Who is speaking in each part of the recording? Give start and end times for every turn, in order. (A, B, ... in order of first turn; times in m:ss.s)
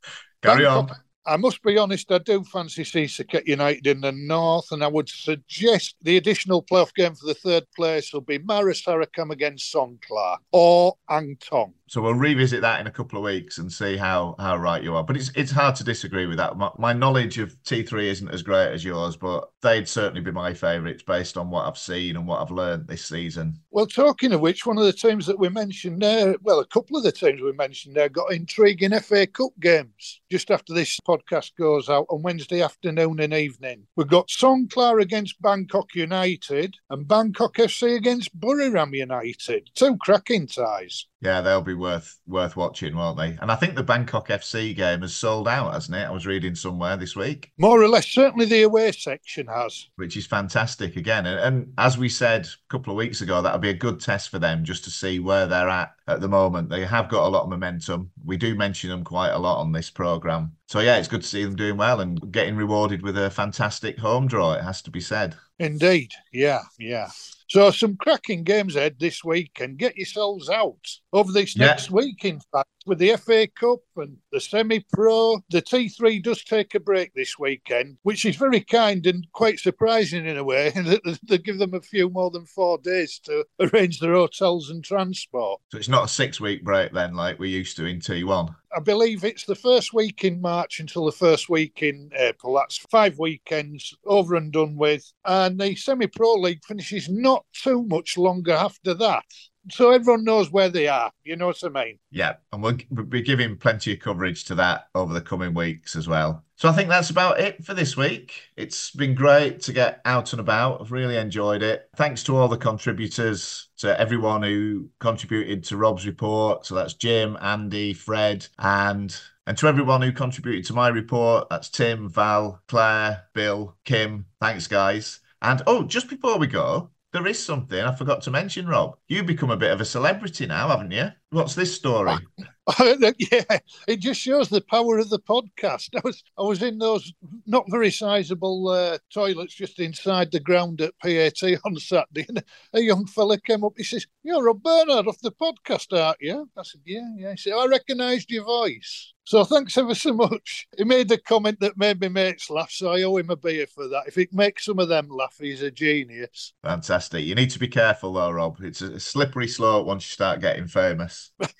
0:00.4-0:01.0 A
0:00.4-0:11.7 B
0:11.9-0:23.6 A
0:23.7-0:41.0 B
0:41.2-0:47.5 A
0:47.6-0:49.8 B
0:50.0-1:05.4 A
1:05.6-1:25.6 B
1:11.5-1:11.8 A
1:25.7-1:28.6 A
1:28.7-1:42.0 B
1:42.1-2:12.3 A
2:12.7-2:36.5 B
2:36.6-2:41.3 A